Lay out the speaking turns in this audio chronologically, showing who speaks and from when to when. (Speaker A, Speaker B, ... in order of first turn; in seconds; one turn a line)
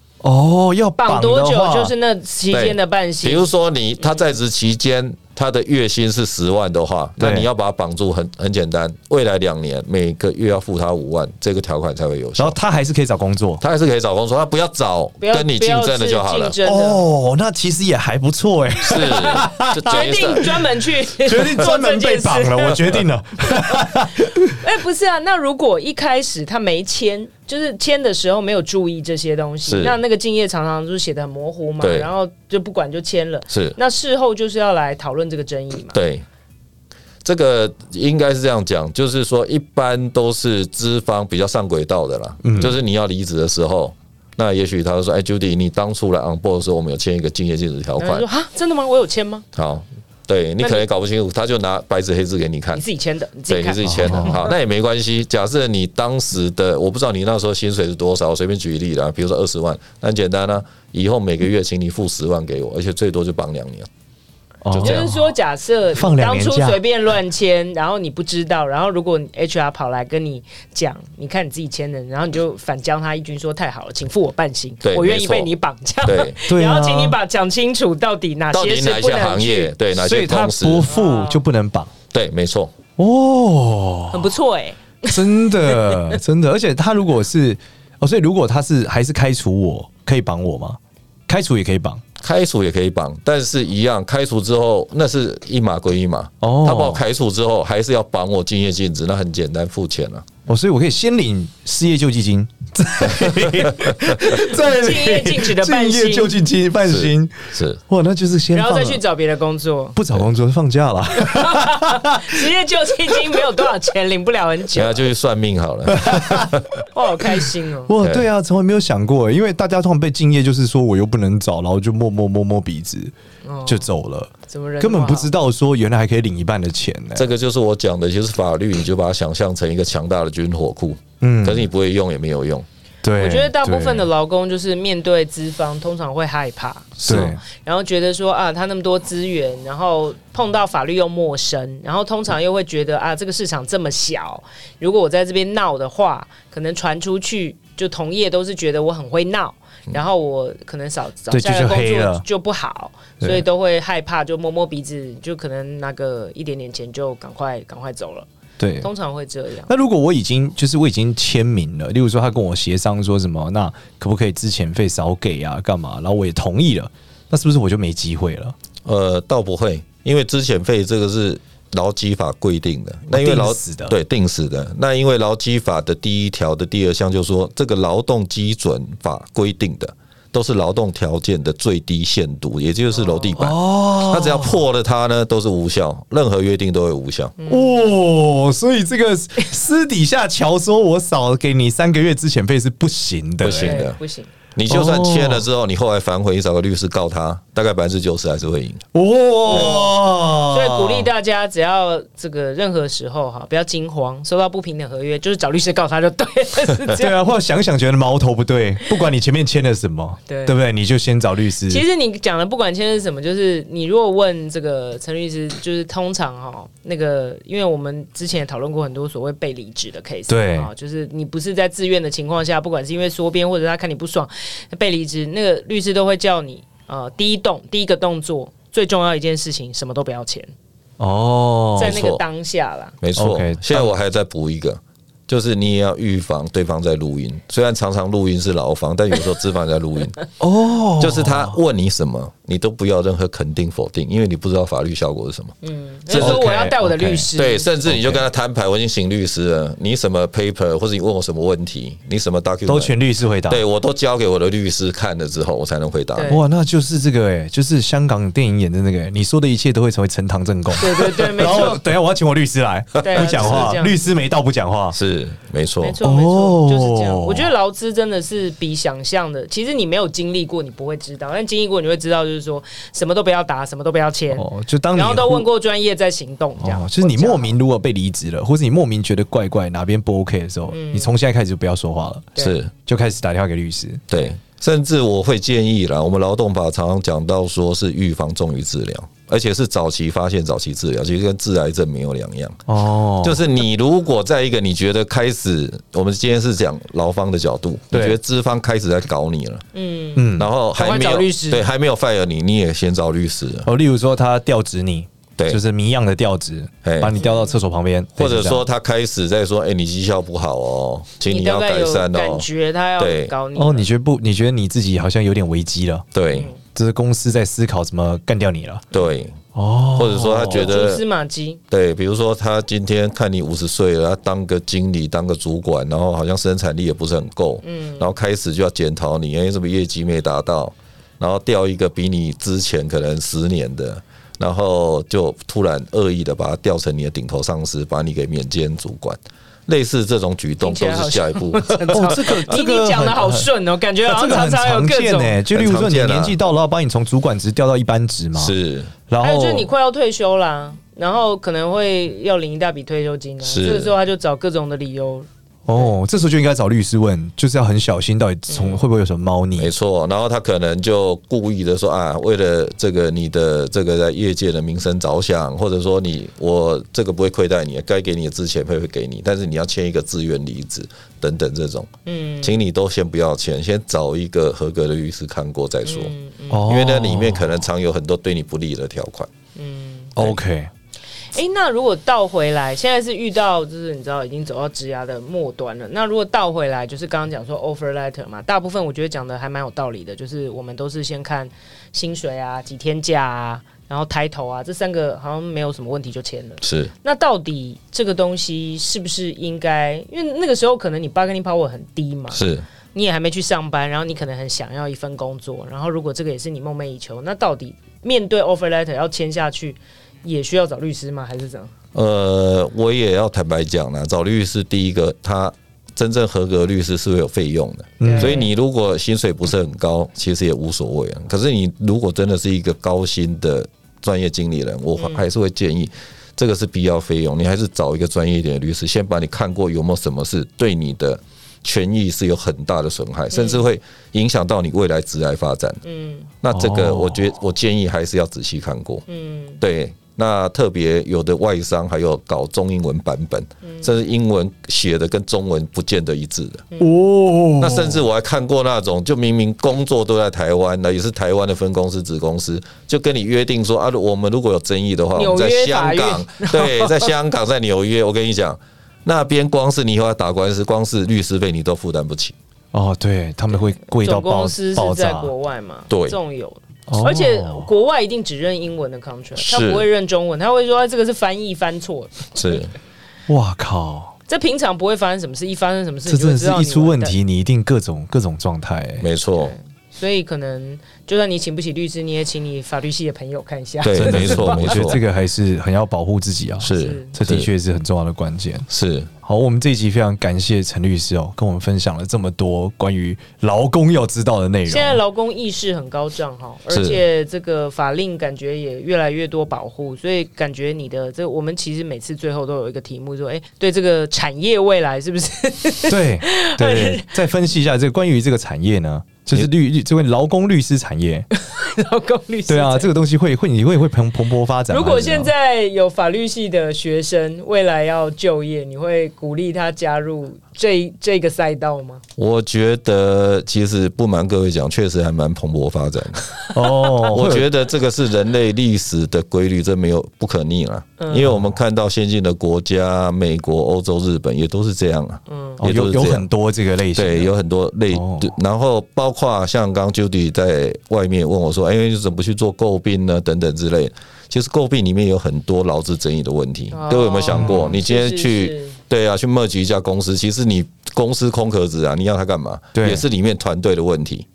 Speaker A: 0.2-1.9
Speaker B: 1.0-3.5
Speaker C: 2.5-12.6
Speaker A: 7.2-7.5
Speaker A: 12.4-13.6
Speaker C: 13.6-16.6
Speaker B: 15.2-17.0
Speaker A: 16.6-20.6
Speaker C: 18.8-20.5
Speaker B: 19.0-36.0
Speaker A: 21.2-24.6
Speaker C: 29.6-30.0
Speaker C: 31.8-32.1
Speaker C: 33.5-33.8
Speaker C: 35.9-36.2
Speaker C: 37.2-48.3
Speaker A: 42.4-42.8
Speaker B: 48.0-49.5
Speaker C: 49.5-52.8
Speaker B: 50.6-50.9
Speaker B: 52.7-54.5
Speaker C: 53.5-63.9
Speaker A: 53.8-54.4
Speaker A: 64.6-65.2
Speaker C: 64.7-65.0
Speaker B: 64.8-79.7
Speaker A: 65.9-66.8
Speaker C: 74.8-75.5
Speaker C: 76.0-76.4
Speaker A: 76.5-77.2
Speaker C: 78.5-80.9
Speaker A: 80.0-81.9
Speaker B: 80.9-81.4
Speaker C: 82.1-82.7
Speaker A: 83.0-84.3
Speaker B: 84.1-86.2
Speaker A: 85.1-92.0
Speaker C: 92.2-100.3
Speaker A: 96.4-97.0
Speaker A: 100.5-109.0
Speaker C: 103.0-104.0
Speaker B: 104.2-106.4
Speaker C: 106.8-107.8
Speaker B: 108.5-110.0
Speaker A: 110.0-112.5
Speaker B: 111.2-115.1
Speaker C: 114.7-116.7
Speaker A: 115.9-116.5
Speaker B: 116.9-117.9
Speaker A: 117.9-123.1
Speaker C: 118.0-118.3
Speaker B: 123.4-123.9
Speaker A: 123.7-127.3
Speaker B: 124.5-125.3
Speaker C: 127.2-132.7
Speaker A: 131.2-131.7
Speaker A: 133.0-134.1
Speaker B: 133.2-158.3
Speaker C: 137.0-137.4
Speaker A: 137.1-137.4
Speaker A: 151.3-152.2
Speaker A: 153.2-153.4
Speaker A: 158.6-158.9
Speaker B: 158.8-159.7
Speaker A: 159.7-168.6
Speaker C: 168.8-187.3
Speaker A: 173.1-174.0
Speaker B: 183.0-183.3
Speaker A: 183.4-184.6
Speaker B: 187.4-187.9
Speaker A: 187.5-193.8
Speaker C: 193.4-194.0
Speaker B: 193.5-194.3
Speaker C: 194.6-198.8
Speaker A: 194.7-195.5
Speaker A: 198.9-201.1
Speaker B: 199.5-207.2
Speaker A: 206.9-211.8
Speaker B: 210.3-210.6
Speaker B: 211.7-230.5
Speaker A: 220.3-220.7
Speaker A: 231.0-232.0
Speaker B: 231.8-233.0
Speaker C: 231.8-232.2
Speaker C: 233.0-240.2
Speaker A: 233.2-233.9
Speaker A: 240.4-241.5
Speaker C: 241.0-245.6
Speaker B: 245.6-247.7
Speaker C: 246.1-246.5
Speaker A: 246.2-247.3
Speaker C: 247.3-253.0
Speaker A: 247.9-248.2
Speaker A: 252.7-253.6
Speaker C: 253.5-256.4
Speaker B: 256.1-256.5
Speaker A: 256.3-265.0
Speaker B: 260.8-261.8
Speaker B: 263.0-264.1
Speaker C: 263.1-263.7
Speaker C: 264.9-266.0
Speaker B: 265.8-277.6
Speaker A: 266.0-267.5
Speaker A: 274.3-275.5
Speaker A: 276.6-282.3
Speaker B: 280.7-281.1
Speaker C: 282.4-282.7
Speaker A: 282.9-284.1
Speaker C: 284.1-292.6
Speaker A: 292.7-293.4
Speaker C: 293.2-299.6
Speaker A: 297.9-298.2
Speaker B: 299.7-301.6
Speaker A: 300.2-300.5
Speaker C: 300.4-303.7
Speaker A: 303.6-308.6
Speaker C: 306.8-307.2
Speaker B: 307.2-307.6
Speaker C: 308.2-312.5
Speaker B: 311.3-313.9
Speaker C: 313.0-313.3
Speaker A: 313.6-316.1
Speaker C: 316.1-316.5
Speaker B: 316.3-316.6
Speaker A: 316.7-318.9
Speaker C: 318.9-319.4
Speaker A: 319.5-320.7
Speaker C: 320.0-321.0
Speaker B: 320.1-321.6
Speaker C: 321.7-342.1
Speaker B: 327.6-328.1
Speaker B: 340.6-345.4
Speaker A: 341.9-343.5
Speaker A: 344.0-348.6
Speaker C: 345.5-346.4
Speaker C: 348.4-348.9
Speaker A: 349.1-349.7
Speaker B: 349.2-355.9
Speaker C: 353.4-353.9
Speaker A: 355.7-359.7
Speaker B: 358.5-358.8
Speaker C: 359.6-376.1
Speaker B: 372.1-372.6
Speaker B: 375.9-376.6
Speaker A: 376.5-377.6
Speaker C: 376.6-379.3
Speaker B: 379.6-380.1
Speaker A: 380.2-380.7
Speaker B: 381.3-411.7
Speaker C: 396.6-396.9
Speaker C: 402.3-402.7
Speaker C: 411.9-435.8
Speaker A: 418.0-418.4
Speaker B: 418.0-418.5
Speaker B: 425.0-425.3
Speaker B: 433.3-433.7
Speaker B: 435.8-436.3
Speaker C: 436.4-439.0
Speaker A: 436.5-437.3
Speaker B: 439.1-439.6
Speaker C: 439.6-446.6
Speaker B: 443.6-443.9
Speaker A: 446.8-448.0
Speaker C: 447.6-462.4
Speaker B: 455.1-457.1
Speaker A: 462.7-465.3
Speaker B: 463.5-472.7
Speaker C: 465.9-466.2
Speaker A: 466.9-467.7
Speaker C: 469.4-469.9
Speaker C: 472.4-472.7
Speaker A: 473.3-474.2
Speaker B: 474.3-477.1
Speaker A: 476.1-479.1
Speaker C: 479.0-479.6
Speaker B: 479.5-485.0
Speaker C: 483.8-485.0
Speaker A: 484.0-488.7
Speaker C: 486.6-487.5
Speaker B: 486.7-487.1
Speaker C: 488.7-489.1
Speaker A: 489.2-495.0
Speaker B: 494.7-507.1
Speaker C: 496.7-497.0
Speaker A: 505.9-511.3
Speaker B: 511.3-512.9
Speaker A: 512.5-515.3
Speaker B: 514.7-522.0
Speaker C: 522.2-526.3
Speaker A: 526.5-527.5
Speaker C: 527.1-536.3
Speaker B: 531.0-531.3
Speaker B: 535.3-535.6
Speaker A: 535.6-537.3
Speaker C: 537.0-554.3
Speaker A: 537.9-538.3
Speaker B: 546.7-548.8
Speaker A: 547.3-547.7
Speaker A: 552.8-553.0